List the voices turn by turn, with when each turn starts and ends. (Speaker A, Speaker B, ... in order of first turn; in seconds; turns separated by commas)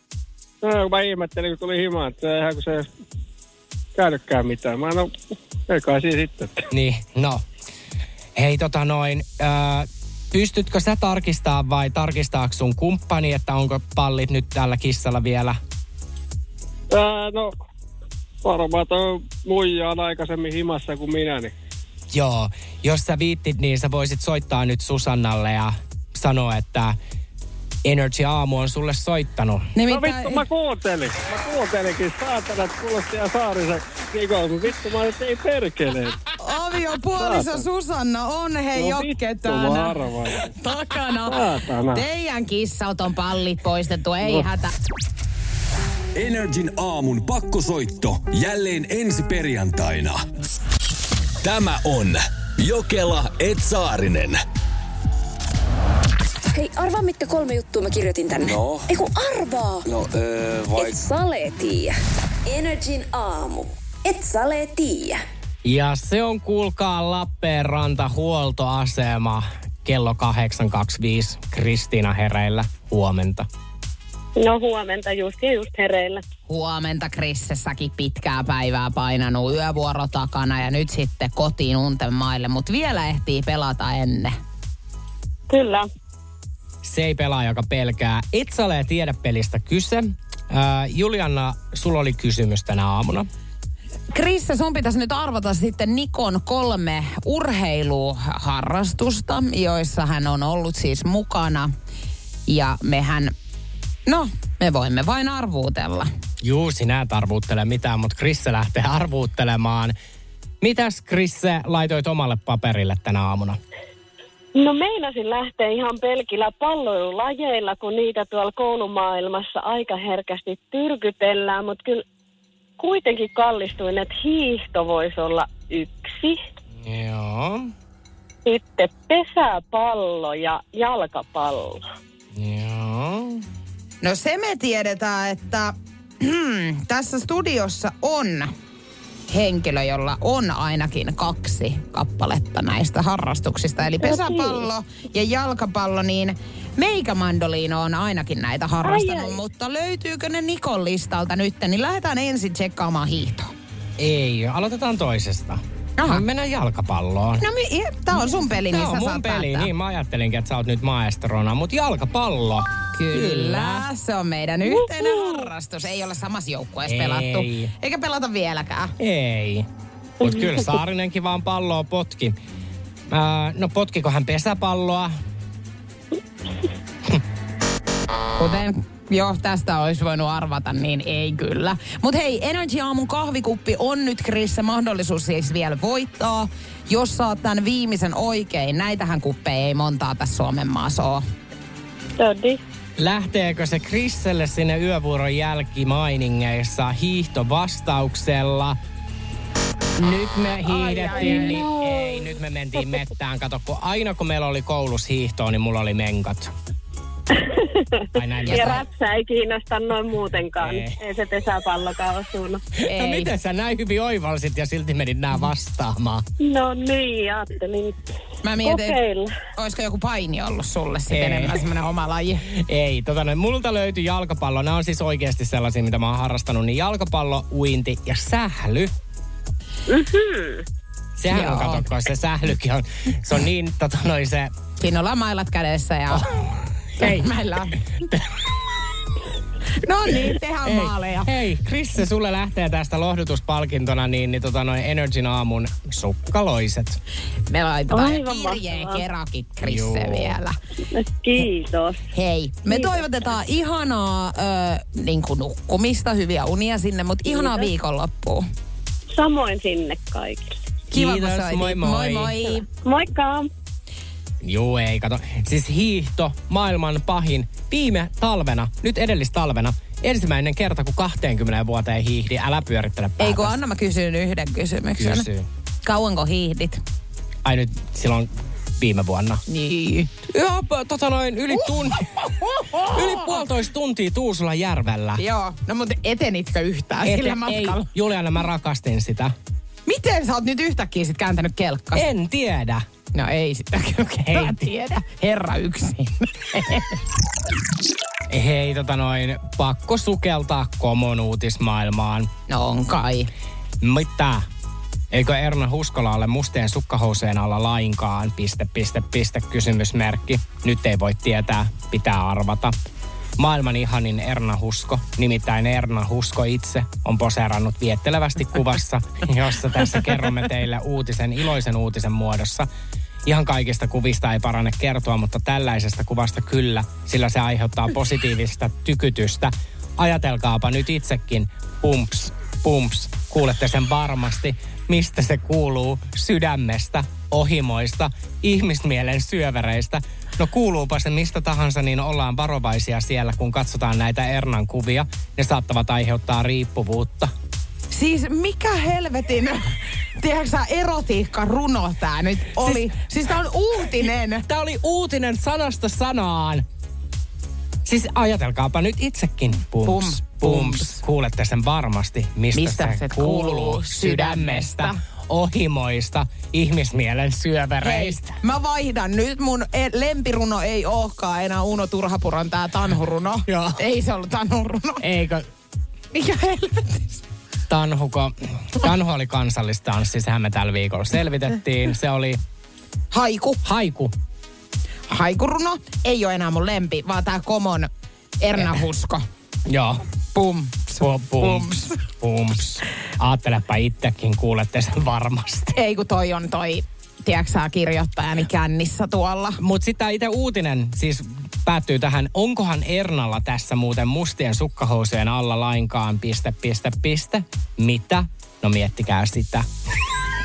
Speaker A: 0.6-2.9, Speaker A: 4.0-5.1, Speaker A: 5.7-6.6, Speaker B: 6.7-7.4, Speaker B: 8.3-15.6, Speaker A: 16.9-17.5, Speaker A: 18.4-21.5, Speaker B: 22.1-26.9, Speaker B: 27.8-29.7, Speaker C: 29.8-30.4, Speaker A: 29.9-36.1, Speaker C: 36.4-44.7, Speaker A: 37.2-37.6, Speaker A: 38.8-40.4, Speaker A: 41.2-42.0, Speaker D: 46.1-50.2, Speaker D: 51.4-54.4, Speaker E: 56.5-59.9, Speaker D: 58.4-58.9, Speaker D: 59.8-61.0, Speaker E: 60.7-61.9, Speaker E: 62.5-65.2, Speaker B: 65.6-73.5, Speaker F: 74.4-76.2, Speaker C: 76.5-84.3, Speaker F: 85.5-85.8, Speaker B: 86.8-93.3, Speaker C: 94.1-101.7, Speaker C: 102.5-103.3, Speaker C: 104.1-106.1, Speaker B: 106.4-109.9, Speaker B: 110.6-113.6, Speaker F: 114.5-122.0, Speaker F: 122.8-126.4, Speaker B: 126.8-127.7, Speaker F: 128.4-131.8, Speaker B: 132.3-133.4, Speaker C: 134.0-138.5, Speaker C: 139.3-153.5, Speaker F: 144.0-144.7, Speaker F: 148.8-149.4, Speaker B: 154.0-157.4, Speaker C: 156.0-156.2, Speaker C: 157.4-159.7, Speaker B: 158.7-163.8, Speaker C: 162.9-168.9, Speaker B: 166.9-167.7, Speaker B: 169.0-169.7, Speaker B: 170.2-172.3, Speaker F: 170.2-170.5, Speaker B: 173.1-175.1, Speaker C: 178.4-191.2, Speaker F: 192.2-192.6, Speaker B: 193.0-198.8, Speaker B: 200.0-206.5, Speaker C: 200.7-201.6, Speaker F: 201.1-202.2, Speaker F: 207.4-212.6, Speaker B: 208.1-208.8, Speaker C: 208.5-208.8, Speaker B: 210.6-211.0, Speaker C: 212.9-213.3, Speaker B: 212.9-216.2, Speaker F: 216.4-217.9, Speaker C: 218.4-219.0, Speaker F: 218.6-219.3, Speaker C: 219.6-222.4, Speaker B: 221.1-221.6, Speaker B: 222.5-228.9, Speaker F: 229.9-230.6, Speaker B: 231.2-234.5, Speaker C: 231.3-231.8, Speaker C: 234.8-236.2, Speaker B: 236.2-237.3, Speaker C: 237.0-237.8, Speaker B: 238.1-238.5, Speaker C: 239.8-241.3, Speaker B: 240.6-247.0, Speaker C: 247.5-250.5, Speaker F: 247.9-249.0, Speaker B: 249.6-250.4, Speaker F: 250.9-252.0, Speaker C: 252.1-258.4, Speaker F: 252.7-253.3, Speaker F: 257.2-257.7, Speaker F: 259.1-260.5, Speaker B: 260.9-262.4, Speaker C: 260.9-262.6, Speaker F: 262.8-263.5, Speaker B: 264.4-273.6, Speaker C: 273.2-275.2, Speaker B: 275.0-275.5, Speaker C: 275.8-276.8, Speaker B: 277.4-279.4, Speaker C: 279.5-280.1, Speaker B: 280.3-282.2, Speaker C: 281.5-283.4, Speaker B: 282.8-285.2, Speaker C: 285.2-287.8, Speaker B: 287.0-289.3, Speaker C: 289.9-292.0, Speaker B: 291.9-292.8, Speaker C: 293.1-297.0, Speaker B: 294.3-294.7, Speaker B: 298.3-302.3, Speaker C: 302.5-303.3, Speaker B: 303.8-304.4, Speaker B: 305.1-312.7, Speaker B: 313.4-322.7, Speaker B: 323.2-347.3, Speaker C: 347.9-354.4, Speaker B: 352.6-352.9, Speaker B: 354.4-356.6, Speaker B: 357.8-368.4, Speaker C: 359.8-361.0, Speaker C: 362.5-365.0, Speaker C: 367.8-375.0, Speaker B: 373.5-373.8, Speaker B: 375.0-375.5, Speaker C: 376.1-377.2, Speaker B: 377.7-382.4, Speaker C: 383.1-383.6, Speaker B: 383.6-384.1, Speaker C: 385.1-387.9, Speaker C: 388.4-389.2, Speaker B: 389.7-390.0, Speaker C: 390.3-391.9, Speaker B: 391.0-395.8, Speaker C: 395.7-399.6, Speaker B: 399.6-409.6